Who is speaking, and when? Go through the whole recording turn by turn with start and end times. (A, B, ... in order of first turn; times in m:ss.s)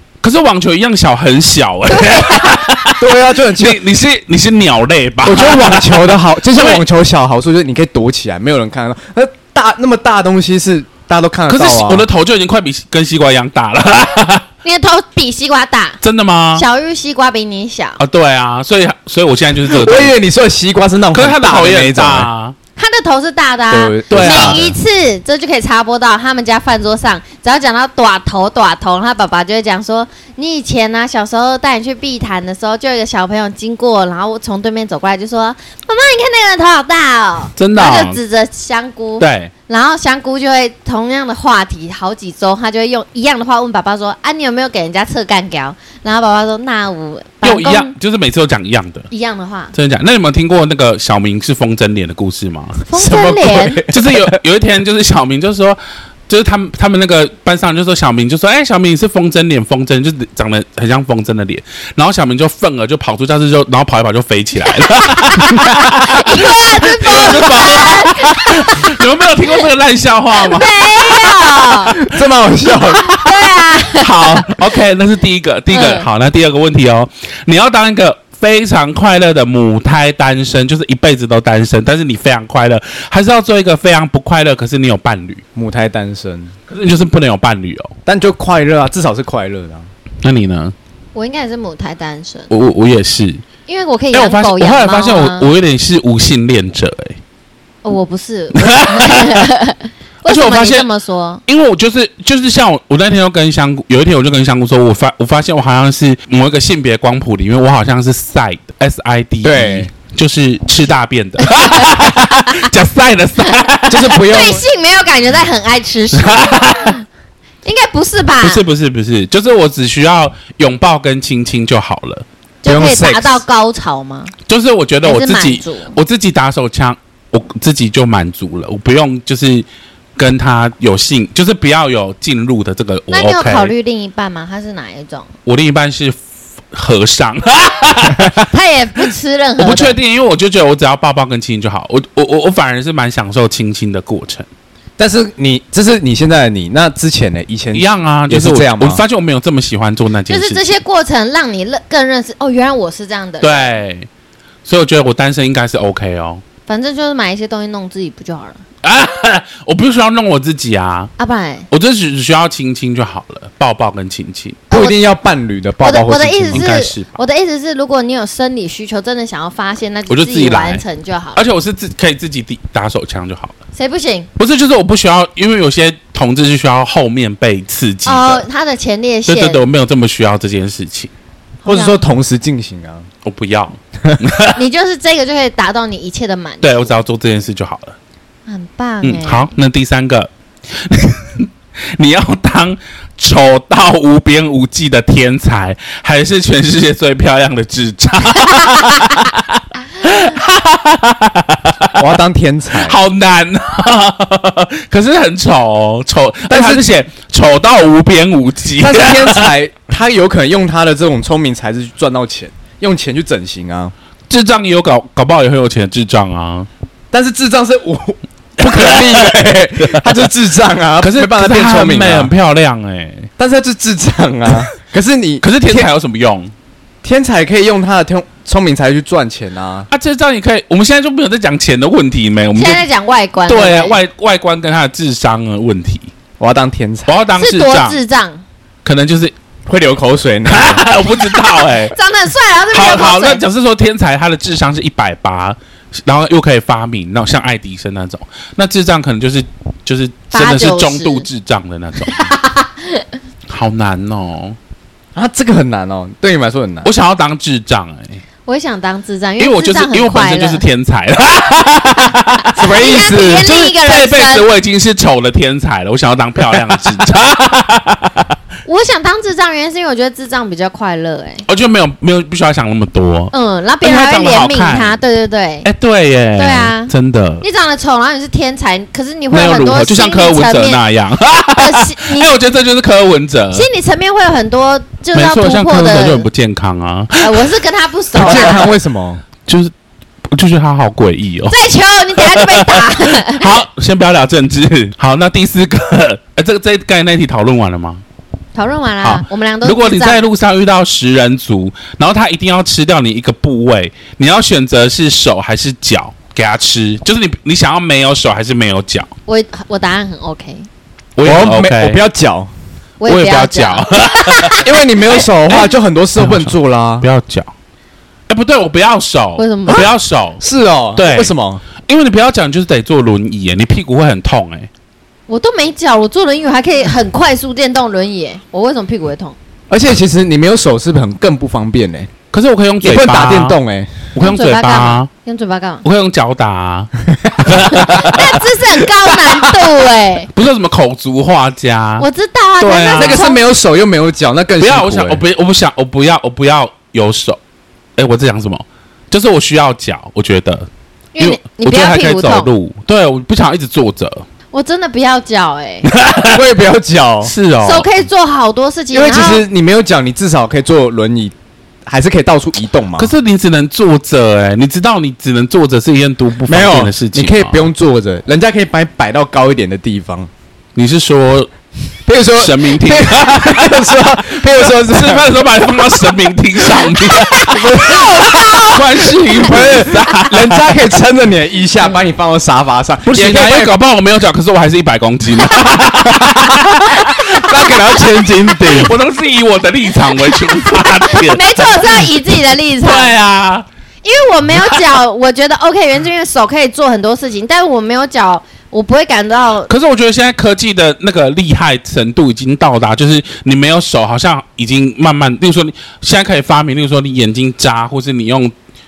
0:00.2-0:06.8 A
0:01.9-0:02.6 B
0:02.8-0:03.8 C
0:05.2-0:12.0 C
0:11.5-0:14.4 A
0:14.6-0:16.0 B
0:16.0-0:16.6 A
0:16.5-0:18.0 B
0:18.0-0:20.1 A
0:19.6-0:22.3 C
0:21.1-0:22.5 A
0:22.8-0:47.9 B
0:23.7-0:24.7 C
0:24.1-0:24.7 A
0:37.6-0:38.2 A
0:39.2-0:39.5 A
0:47.4-0:49.1 A
0:49.1-0:49.7 B
0:49.7-0:52.8 A
0:52.9-0:53.8 B
0:53.0-0:54.4 C
0:53.9-0:55.8 A
0:56.3-1:11.3 A
1:04.7-1:09.6 B
1:10.4-1:12.0 B
1:11.9-1:13.2 C
1:13.0-1:14.6 B
1:13.0-1:25.4 A
1:15.7-1:16.1 B
1:25.6-1:26.5 C
1:26.7-1:27.9 A
1:28.0-1:29.9 C
1:30.2-1:30.7 A
1:31.1-1:32.5 B
1:32.5-1:33.4 A
1:33.6-1:35.5 B
1:34.1-1:37.2 A
1:37.8-1:41.4 B
1:38.5-1:39.5 A
1:40.2-1:40.9 A
1:41.4-1:54.3 A
1:49.4-1:49.9 C
1:51.4-1:52.7 B
1:53.4-1:57.0 B
1:53.9-1:54.6 C
1:56.2-1:57.0 A
1:57.6-1:58.6 B
1:58.4-2:02.2 A
2:02.6-2:04.3 B
2:02.6-2:03.4 C
2:04.5-2:13.7 A
2:05.0-2:05.9 B
2:13.1-2:15.3 B
2:15.4-2:16.2 A
2:16.7-2:18.5 A
2:18.5-2:20.0 B
2:19.6-2:24.5 A
2:25.0-2:29.0 C
2:27.7-2:30.6 A
2:30.3-2:33.7 B
2:33.4-2:34.1 A
2:34.6-2:36.4 A
2:36.7-2:38.6 B
2:38.8-2:41.1 A
2:41.2-2:41.7 B
2:41.7-2:44.6 A
2:44.7-2:44.9 B
2:44.7-2:46.7 C
2:45.8-2:51.4 B
2:46.5-2:47.2 A
2:50.1-2:50.8 A
2:51.4-2:53.5 A
2:53.7-2:54.3 B
2:54.4-2:58.4 A
2:58.0-2:59.6 B
2:59.2-3:01.1 A
3:01.6-3:02.0 B
3:01.6-3:03.1 C
3:03.2-3:04.6 A
3:04.5-3:06.9 B
3:06.6-3:07.9 A
3:08.5-3:09.5 B
3:09.0-3:22.0 A
3:22.0-3:23.0 C
3:22.8-3:29.5 A
3:26.5-3:26.8 C
3:28.8-3:33.9 C
3:34.3-3:36.7 A
3:37.1-3:42.3 C
3:38.6-3:40.3 A
3:41.0-3:43.3 A
3:43.4-3:45.9 C
3:45.4-3:46.5 A
3:47.0-3:49.9 C
3:49.9-3:52.8 A
3:52.5-3:54.0 B
3:53.5-3:56.1 A
3:56.4-3:57.2 C
3:57.1-3:58.0 A
3:57.4-3:58.4 B
3:58.8-3:59.3 A
3:59.6-4:00.9 C
4:00.5-4:01.9 A
4:01.1-4:03.4 B
4:02.7-4:12.3 A
4:10.3-4:11.3 B
4:12.1-4:13.0 B
4:13.5-4:14.6 A
4:15.1-4:16.9 C
4:16.8-4:18.2 A
4:18.4-4:20.6 B
4:19.4-4:22.6 A
4:22.0-4:24.5 B
4:22.5-4:23.5 C
4:23.4-4:28.3 A
4:28.6-4:31.4 B
4:31.5-4:35.0 A
4:33.3-4:35.7 B
4:35.6-4:37.4 A
4:36.4-4:40.8 B
4:39.3-4:43.7 A
4:41.6-4:42.3 B
4:43.5-4:46.2 B
4:45.1-4:47.4 A
4:47.2-4:48.7 B
4:48.1-4:49.2 C
4:48.3-4:48.6 A
4:49.4-4:49.7 A
4:50.3-4:51.6 A
4:51.5-4:53.6 B
4:52.2-4:58.0 A
4:58.5-5:00.2 B
4:59.0-5:09.1 A
5:09.3-5:10.7 B
5:11.2-5:12.0 A
5:11.2-5:12.5 C
5:13.0-5:14.6 B
5:13.0-5:17.5 A
5:14.5-5:17.0 C
5:18.3-5:20.4 A
5:19.4-5:19.9 B
5:20.4-5:21.6 C
5:20.9-5:21.3 A
5:21.8-5:24.7 A
5:25.3-5:29.4 B
5:29.7-5:32.1 C
5:32.3-5:33.6 A
5:32.8-5:34.1 C
5:34.1-5:35.1 A
5:34.2-5:35.8 B
5:35.8-5:38.3 A
5:37.4-5:37.7 C
5:37.6-5:40.3 B
5:40.3-5:42.1 A
5:42.0-5:43.4 B
5:42.6-5:43.2 A
5:42.9-5:45.2 C
5:44.6-5:47.4 A
5:48.0-5:50.7 A
5:51.1-5:52.5 B
5:51.2-5:54.2 A
5:54.5-5:55.9 B
5:55.8-5:56.4 A
5:56.2-5:57.3 C
5:57.2-5:57.9 A
5:57.6-5:59.4 B
5:58.9-6:01.3 C
6:01.8-6:03.1 C
6:03.0-6:07.6 A
6:06.5-6:10.3 C
6:10.7-6:11.5 A
6:12.0-6:16.1 C
6:12.3-6:17.6 A
6:17.1-6:19.4 B
6:17.4-6:23.7 C
6:18.6-6:20.8 A
6:23.0-6:27.4 A
6:25.4-6:25.8 B
6:26.1-6:28.9 C
6:27.1-6:28.7 B
6:28.6-6:32.1 A
6:30.0-6:33.1 B
6:32.8-6:33.6 A
6:34.0-6:39.7 B
6:39.7-6:48.5 A